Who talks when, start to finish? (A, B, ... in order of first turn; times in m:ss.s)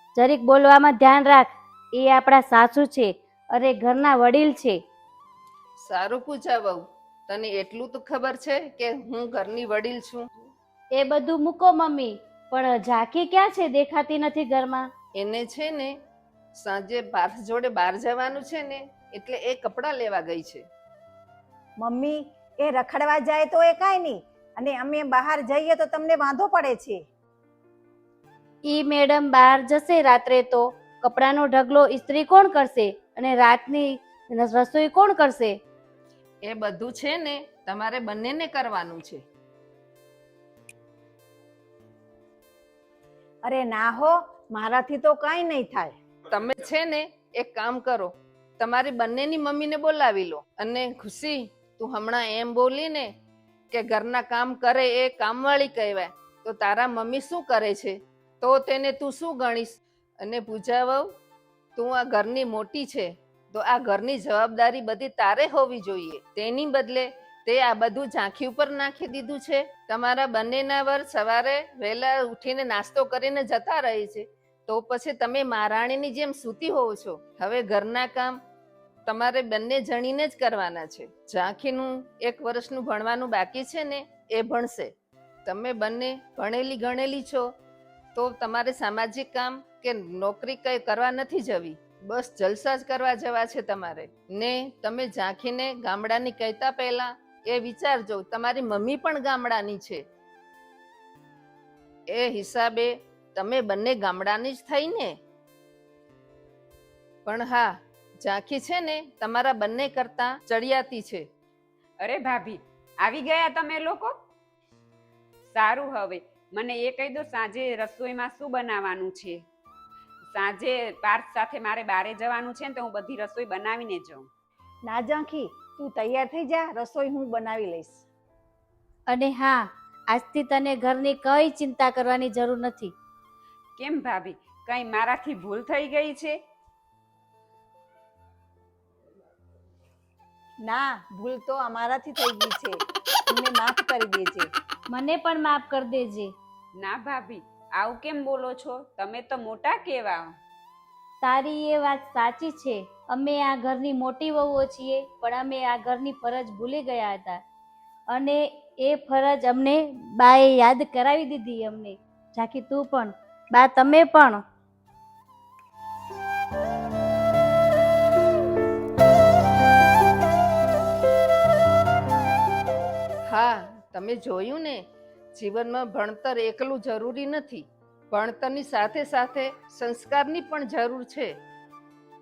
0:00.2-0:04.8 A
0:05.8-0:10.4 B
0:10.9-0:14.9 A
0:15.2-0:15.9 B
0:16.6-0:20.6 B
0:21.8-0:27.0 C
0:28.7-0:35.6 A
0:36.4-0:39.2 B
0:43.4-0:46.0 C
0:46.3-0:53.1 B
0:53.7-1:01.1 B
1:01.8-1:18.4 B
1:19.0-1:24.9 B
1:25.4-1:27.5 B
1:28.1-1:40.0 B
1:42.1-1:45.2 B
1:47.2-1:47.7 B
1:48.2-1:51.3 B
1:52.0-1:54.1 D
1:55.5-1:59.4 D
2:00.3-2:04.3 D
2:04.8-2:08.0 C
2:09.1-2:12.9 A
2:13.8-2:16.4 D
2:20.6-2:24.5 C
2:24.9-2:26.3 A
2:26.8-2:30.3 D
2:31.2-2:37.4 A
2:38.1-2:44.4 A
2:53.3-3:01.3 B